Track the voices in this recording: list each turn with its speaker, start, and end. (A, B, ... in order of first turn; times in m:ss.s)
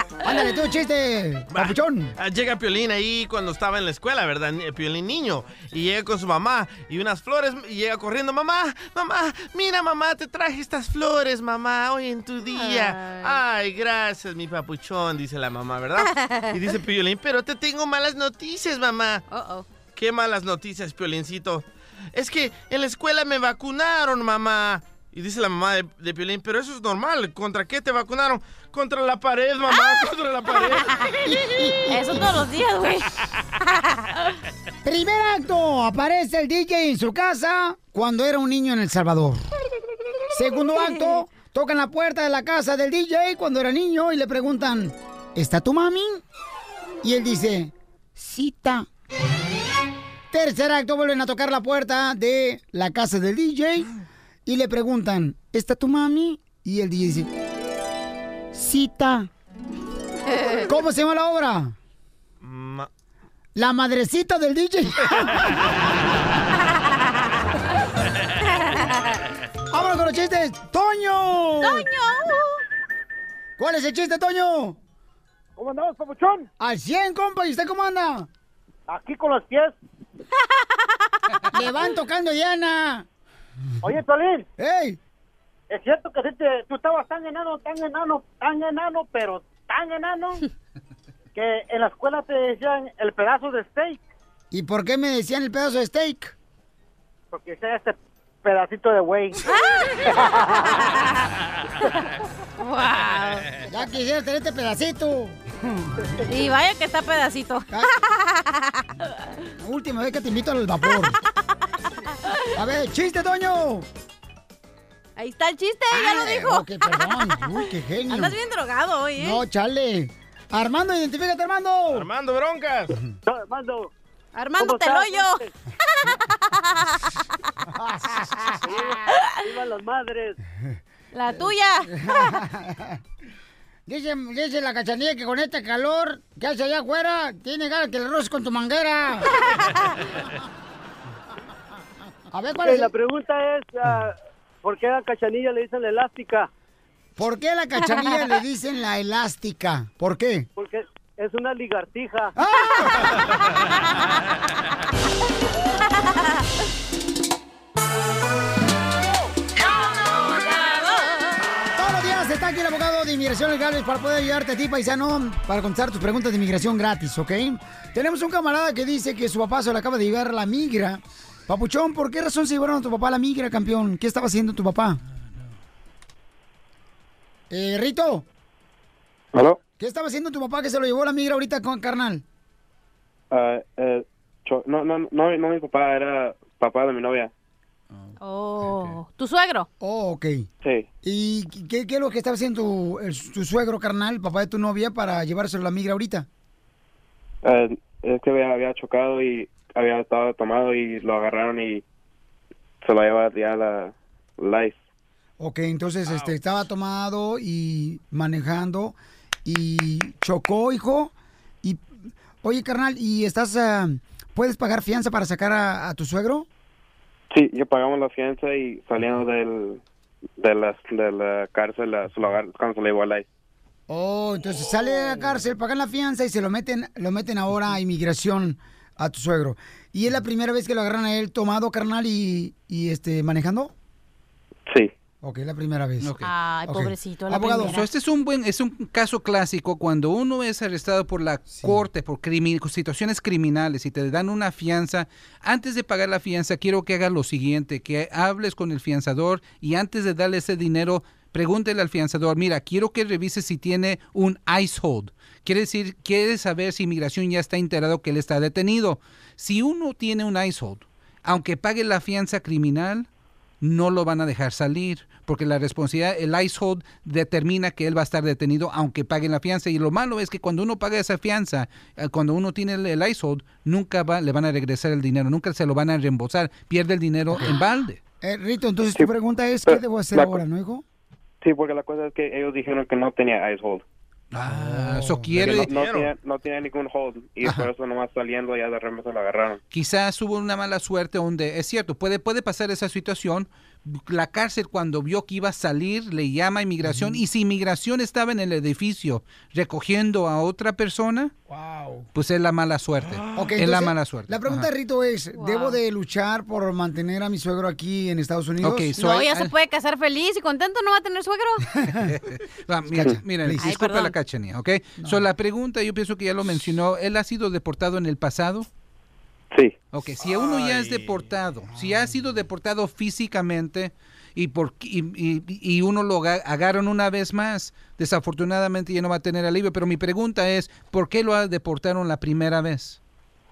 0:00.2-0:02.1 A
0:01.5-0:19.2 B
0:12.5-0:13.4 C
0:16.1-0:16.5 C
0:19.3-0:19.7 C
0:20.0-0:31.0 B
0:31.2-0:32.4 A
0:31.9-0:33.2 C
0:33.8-0:34.2 C
0:34.8-0:39.4 A
0:40.3-0:46.2 A
0:47.0-0:48.9 A
0:50.3-0:53.9 A
0:54.5-0:57.3 A
0:58.5-0:59.3 A
1:00.6-1:01.8 A
1:02.4-1:02.9 B
1:03.6-1:05.5 A
1:08.6-1:09.0 C
1:09.7-1:11.9 A
1:11.6-1:12.6 C
1:13.6-1:14.8 A
1:15.6-1:16.5 D
1:16.6-1:18.3 A
1:18.9-1:19.8 D
1:20.6-1:20.9 C
1:21.5-1:23.1 A
1:23.8-1:24.5 D
1:24.6-1:25.0 A
1:25.7-1:30.4 D
1:31.4-1:34.0 D
1:34.5-1:36.3 A
1:37.3-1:39.4 D
1:39.5-1:39.9 C
1:40.1-1:40.8 D
1:40.8-1:41.2 C
1:42.6-1:43.6 C
1:43.6-1:45.7 A
1:46.3-1:49.1 C
1:49.6-1:51.2 A
1:52.5-1:53.9 A
1:55.2-1:59.4 C
1:55.9-1:58.4 A
1:59.2-2:02.1 A
2:01.9-2:02.9 B
2:03.3-2:03.9 D
2:04.4-2:05.5 C
2:04.6-2:05.5 D
2:06.0-2:07.1 C
2:07.8-2:08.8 A
2:09.1-2:09.4 C
2:09.4-2:10.4 D
2:11.1-2:12.3 C
2:11.9-2:13.0 A
2:13.9-2:19.4 A
2:22.3-2:22.9 A
2:22.6-2:26.5 D
2:27.2-2:30.5 A
2:30.6-2:32.3 D
2:32.4-2:33.1 A
2:40.2-2:41.2 C
2:41.8-2:55.0 A
2:57.5-2:58.2 A
2:59.3-2:59.6 E
2:59.8-3:02.2 A
3:03.3-3:07.3 E
3:08.2-3:09.7 C
3:08.7-3:09.0 F
3:09.8-3:10.5 A
3:10.6-3:10.9 E
3:11.0-3:16.3 A
3:17.4-3:21.8 E
3:22.8-3:24.8 E
3:25.4-3:31.9 A
3:26.1-3:26.3 B
3:32.4-3:36.5 A
3:37.3-3:39.8 E
3:40.4-3:43.3 E
3:43.9-3:53.7 A
3:54.7-3:54.9 E
3:55.2-3:56.1 A
3:56.0-3:56.3 F
3:56.2-3:57.9 C
3:56.7-3:57.8 A
3:57.6-4:23.1 F
4:01.5-4:01.8 A
4:23.6-4:38.0 F
4:38.2-4:40.8 A
4:39.7-4:40.4 E
4:41.4-4:43.8 E
4:44.3-4:45.7 F
4:44.5-4:45.4 A
4:45.4-4:46.1 B
4:45.4-4:49.6 E
4:49.7-5:01.3 F
4:56.8-4:57.2 A
5:02.1-5:04.7 F
5:03.4-5:09.2 A
5:05.4-5:05.8 C
5:08.6-5:09.5 F
5:09.0-5:11.7 C
5:12.0-5:18.7 F
5:12.9-5:13.7 A
5:13.6-5:14.2 C
5:15.0-5:15.2 A
5:19.9-5:33.0 F
5:20.2-5:21.3 B